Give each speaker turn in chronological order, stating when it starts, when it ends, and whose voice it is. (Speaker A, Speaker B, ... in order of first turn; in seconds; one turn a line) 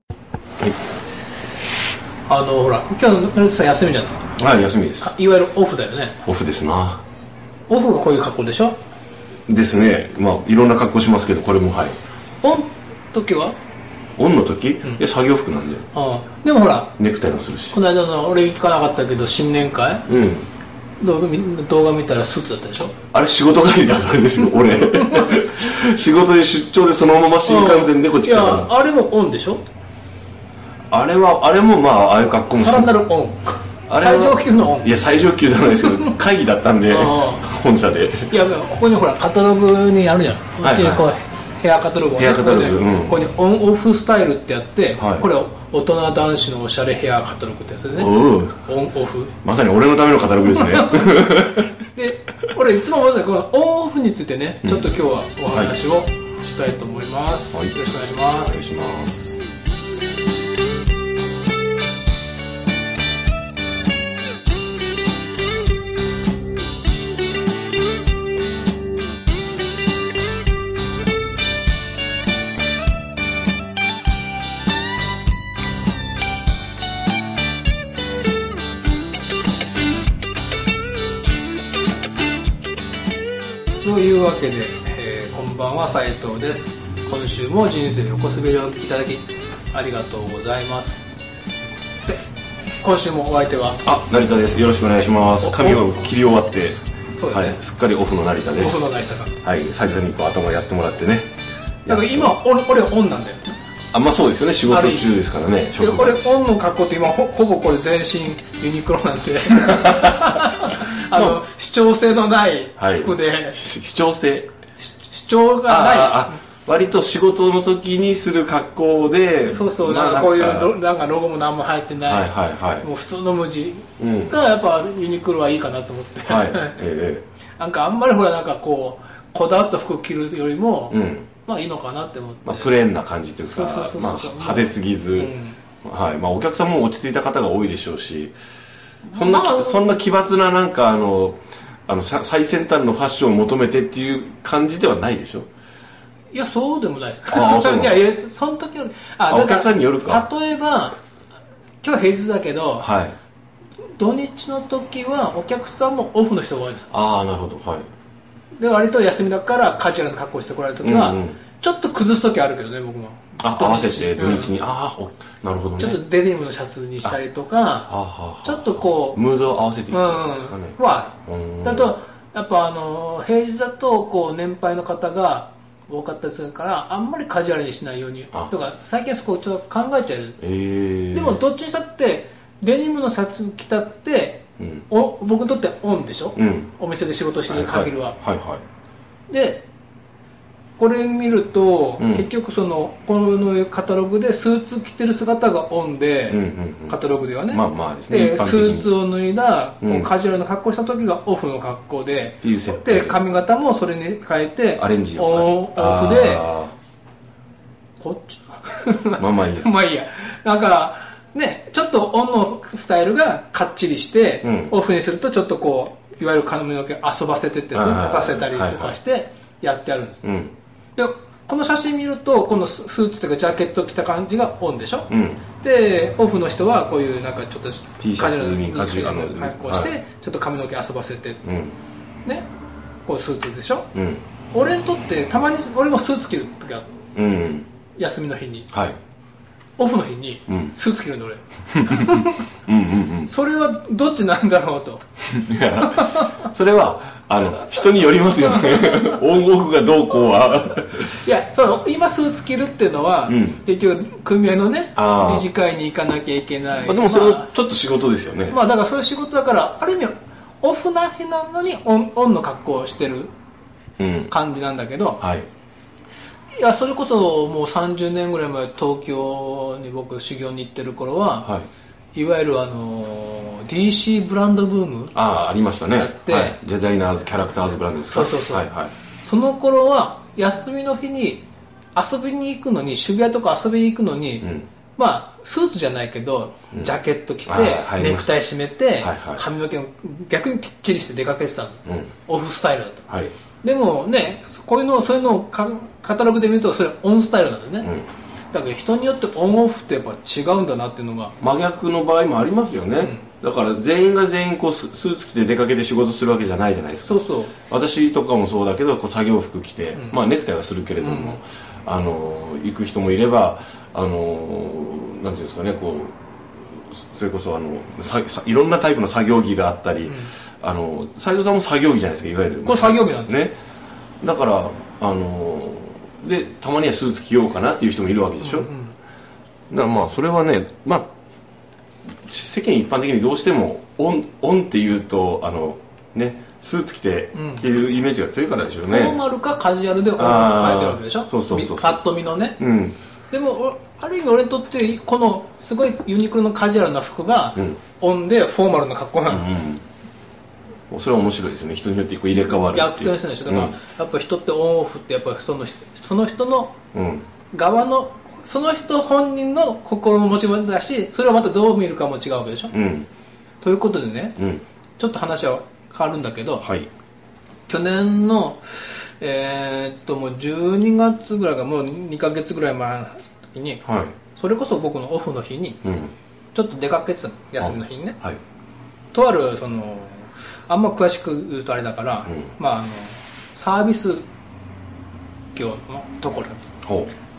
Speaker A: 2.3-4.3
Speaker B: 4.4-5.1
Speaker A: 5.0-6.2
Speaker B: 6.3-7.0
Speaker A: 7.7-8.8
Speaker B: 9.5-12.0
Speaker A: 12.4-13.6
Speaker B: 14.2-15.9
Speaker A: 15.9-16.9
Speaker B: 17.0-17.8
Speaker A: 17.7-20.1
Speaker B: 20.1-20.5
Speaker A: 21.0-23.0
Speaker B: 23.1-28.7
Speaker A: 24.7-25.4
Speaker A: 27.4-29.6
Speaker B: 30.9-33.0
Speaker A: 32.5-35.0
Speaker B: 33.9-38.4
Speaker A: 36.9-37.5
Speaker A: 38.3-49.4
Speaker B: 40.6-41.1
Speaker B: 42.2-43.2
Speaker B: 45.0-45.3
Speaker B: 48.0-48.6
Speaker B: 49.4-51.7
Speaker A: 50.5-51.3
Speaker A: 51.9-58.6
Speaker B: 54.6-54.9
Speaker B: 55.5-55.8
Speaker B: 58.4-59.4
Speaker A: 83.8-91.0
Speaker A: 92.8-93.8
Speaker B: 93.8-98.9
Speaker A: 95.4-95.9
Speaker A: 97.2-97.6
Speaker A: 98.6-99.4
Speaker B: 99.4-101.3
Speaker B: 101.8-102.4
Speaker A: 101.9-103.6
Speaker B: 103.9-106.2
Speaker A: 104.7-105.1
Speaker A: 105.8-113.7
Speaker B: 109.5-110.4
Speaker B: 111.1-111.4
Speaker B: 112.8-114.5
Speaker A: 114.8-116.3
Speaker B: 115.7-120.8
Speaker A: 119.5-126.8
Speaker B: 122.0-122.9
Speaker B: 124.0-124.4
Speaker B: 126.2-127.2
Speaker A: 127.6-132.7
Speaker B: 130.9-131.3
Speaker B: 132.4-138.4
Speaker A: 133.4-135.6
Speaker A: 139.1-139.9
Speaker B: 139.1-145.5
Speaker A: 146.3-151.0
Speaker B: 147.3-148.0
Speaker B: 149.3-150.3
Speaker A: 151.8-152.9
Speaker B: 152.8-153.2
Speaker A: 154.0-156.9
Speaker B: 156.9-157.9
Speaker A: 158.6-164.5
Speaker B: 160.8-161.4
Speaker B: 163.4-166.0
Speaker A: 165.8-167.9
Speaker B: 167.9-172.0
Speaker A: 168.4-169.2
Speaker A: 169.9-180.4
Speaker B: 180.4-181.4
Speaker A: 181.1-188.2
Speaker B: 184.6-184.8
Speaker B: 186.4-186.7
Speaker B: 187.5-188.6
Speaker A: 189.3-189.7
Speaker A: 190.8-206.5
Speaker B: 192.0-192.3
Speaker B: 196.3-198.9
Speaker B: 199.8-200.1
Speaker B: 202.4-203.2
Speaker B: 204.8-206.7
Speaker A: 208.0-220.3
Speaker B: 209.2-209.7
Speaker B: 214.4-214.8
Speaker B: 217.7-219.0
Speaker B: 220.2-220.5
Speaker A: 221.0-231.4
Speaker B: 225.1-225.4
Speaker B: 228.0-229.9
Speaker B: 231.4-231.8
Speaker A: 233.1-233.9
Speaker B: 233.9-234.2
Speaker A: 234.5-236.9
Speaker B: 237.2-237.7
Speaker A: 238.0-238.7
Speaker B: 238.7-239.0
Speaker A: 239.8-242.4
Speaker B: 240.5-240.8
Speaker B: 241.8-243.3
Speaker A: 243.3-245.0
Speaker B: 245.3-251.2
Speaker A: 245.8-246.4
Speaker A: 248.5-249.2
Speaker A: 251.2-257.5
Speaker B: 253.3-253.6
Speaker B: 255.0-255.5
Speaker B: 256.8-258.6
Speaker A: 258.5-263.3
Speaker B: 264.0-264.3
Speaker A: 264.3-265.2
Speaker B: 265.2-265.5
Speaker A: 266.6-271.5
Speaker A: 272.1-275.2
Speaker B: 275.1-278.9
Speaker A: 275.9-276.6
Speaker A: 278.1-278.7
Speaker A: 279.2-293.1
Speaker B: 284.4-284.7
Speaker B: 287.5-288.3
Speaker B: 289.0-289.4
Speaker B: 291.9-292.1
Speaker A: 293.6-297.9
Speaker B: 297.8-298.1
Speaker A: 298.5-301.4
Speaker B: 301.4-316.1
Speaker A: 303.0-303.3
Speaker A: 307.1-307.6
Speaker A: 311.0-311.4
Speaker B: 316.7-323.6
Speaker A: 320.1-320.3
Speaker A: 322.6-323.4
Speaker B: 324.2-328.7
Speaker A: 328.4-329.0
Speaker B: 329.7-331.1
Speaker B: 332.3-339.2
Speaker A: 337.4-337.7
Speaker A: 338.9-342.6
Speaker B: 340.2-342.0
Speaker B: 342.6-343.0
Speaker A: 343.3-349.5
Speaker B: 349.3-349.8
Speaker B: 350.9-353.8
Speaker A: 352.7-356.8
Speaker B: 356.9-357.3
Speaker A: 357.5-362.7
Speaker B: 362.7-363.1
Speaker A: 363.6-364.4
Speaker B: 364.4-364.6
Speaker A: 365.0-366.8
Speaker B: 366.6-366.9
Speaker A: 367.7-375.9
Speaker B: 373.9-374.1
Speaker B: 375.8-376.1
Speaker A: 376.5-378.2
Speaker B: 377.6-378.4
Speaker A: 379.1-384.3
Speaker A: 385.5-386.6
Speaker B: 386.8-387.1